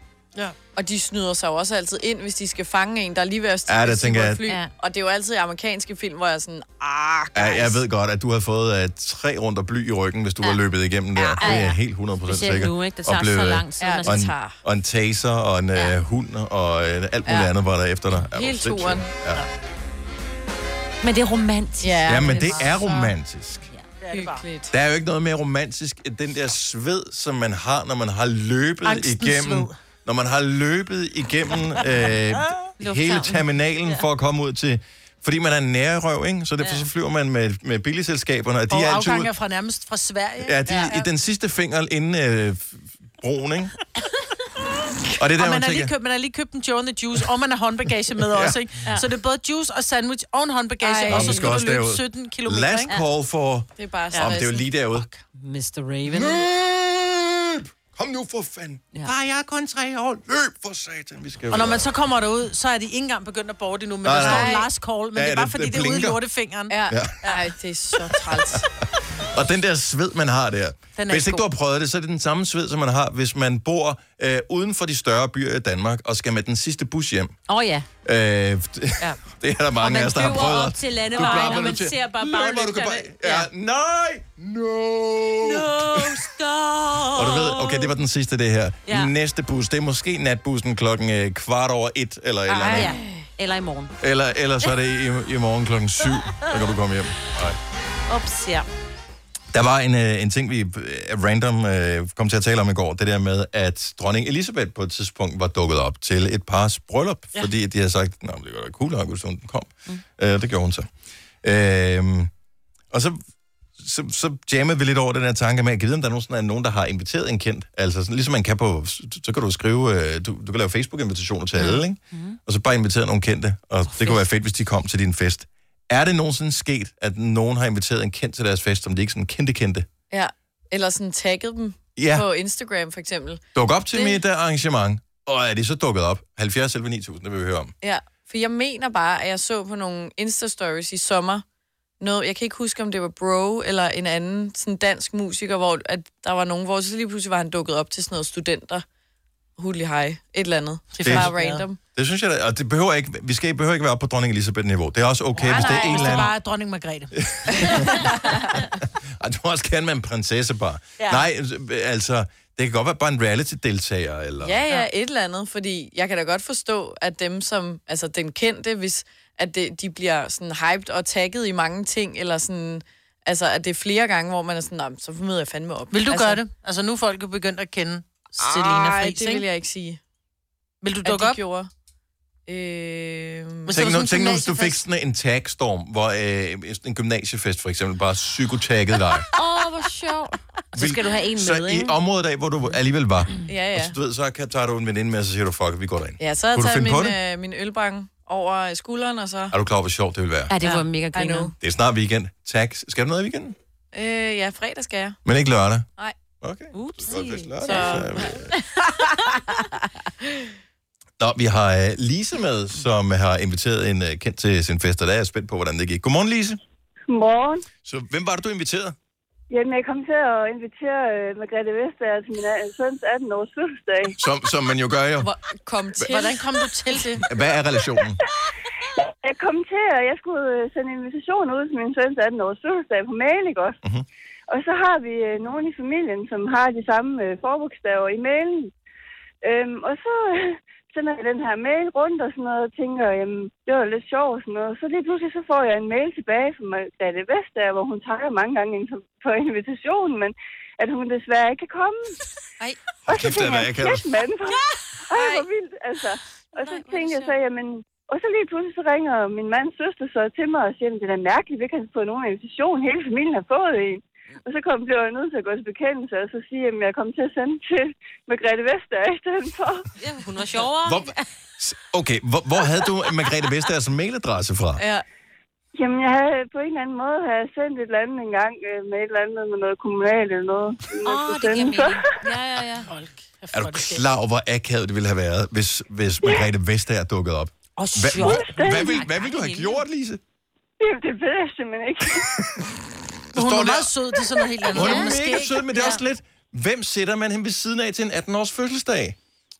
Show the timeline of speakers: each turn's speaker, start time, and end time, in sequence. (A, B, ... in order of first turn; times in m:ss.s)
0:00.8-0:07.8 A
0:03.7-0:04.4 B
0:04.5-0:04.7 C
0:07.4-0:19.4 B
0:11.2-0:14.3 C
0:11.2-0:11.6 A
0:13.8-0:14.6 A
0:18.3-0:19.1 A
0:21.0-0:23.1 C
0:21.8-0:22.4 A
0:22.1-0:23.7 B
0:22.3-0:22.6 D
0:24.0-0:24.4 D
0:24.1-0:24.7 A
0:24.7-0:39.3 B
0:28.8-0:29.8 D
0:32.8-0:34.0 C
0:36.6-0:36.9 C
0:38.7-0:41.0 D
0:40.4-0:43.7 B
0:45.2-0:45.9 B
0:45.4-0:52.9 D
0:48.3-0:48.6 B
0:50.8-0:51.5 A
0:51.1-0:55.1 B
0:53.8-0:54.6 A
0:54.9-0:55.2 D
0:55.4-0:56.5 C
0:56.1-1:01.9 B
1:01.5-1:07.4 D
1:04.0-1:04.6 B
1:04.1-1:04.7 A
1:05.2-1:06.2 B
1:06.7-1:08.7 A
1:06.9-1:07.2 B
1:09.2-1:17.4 B
1:11.0-1:11.4 D
1:17.5-1:17.9 C
1:18.0-1:26.2 B
1:19.8-1:23.5 C
1:21.2-1:21.7 D
1:25.4-1:28.0 C
1:27.1-1:32.9 B
1:28.9-1:29.1 C
1:32.6-1:34.0 C
1:32.7-1:32.9 A
1:34.0-1:37.6 B
1:38.1-1:38.7 C
1:39.5-1:50.9 B
1:51.4-1:52.3 B
1:52.9-1:53.2 B
1:53.8-2:09.9 B
2:02.1-2:02.4 C
2:10.1-2:14.2 A
2:12.0-2:12.3 B
2:13.6-2:17.7 B
2:17.8-2:21.4 A
2:22.0-2:28.8 A
2:29.6-2:31.8 A
2:30.9-2:31.6 D
2:31.0-2:31.3 B
2:32.0-2:36.3 B
2:35.4-2:38.1 D
2:35.5-2:36.2 A
2:37.2-2:44.6 B
2:41.0-2:41.3 D
2:44.4-2:56.4 A
2:55.9-2:59.4 D
2:58.4-3:00.0 A
3:00.8-3:01.4 D
3:01.0-3:01.7 A
3:02.5-3:03.7 A
3:03.7-3:04.8 D
3:03.7-3:09.3 B
3:09.3-3:12.0 C
3:09.6-3:10.4 A
3:10.8-3:17.2 B
3:13.5-3:14.0 A
3:16.2-3:19.5 A
3:19.5-3:20.5 B
3:20.5-3:21.5 C
3:21.1-3:21.5 A
3:21.6-3:23.6 B
3:23.9-3:25.2 A
3:25.2-3:25.9 B
3:26.4-3:28.5 B
3:26.7-3:28.3 C
3:27.6-3:29.7 A
3:31.2-3:36.6 B
3:37.1-3:37.7 E
3:37.8-3:39.0 B
3:39.5-3:44.2 E
3:44.2-3:45.3 B
3:45.2-3:46.4 A
3:46.1-3:47.3 D
3:47.2-3:48.2 B
3:49.0-3:53.8 E
3:54.5-3:58.7 E
3:59.4-4:12.2 E
4:13.1-4:14.1 B
4:13.1-4:29.9 E
4:15.1-4:15.4 A
4:16.6-4:17.3 C
4:30.0-4:31.2 C
4:30.8-4:34.8 B
4:34.8-4:35.0 A
4:35.8-4:42.2 E
4:41.0-4:42.9 C
4:42.9-4:44.1 D
4:43.5-4:50.2 B
4:47.8-4:48.4 D
4:48.0-4:49.8 C
4:48.1-4:49.0 E
4:50.8-4:52.4 E
4:53.3-4:53.9 B
4:53.3-4:55.8 D
4:54.7-4:59.2 B
4:54.7-4:55.2 C
4:55.7-4:56.0 C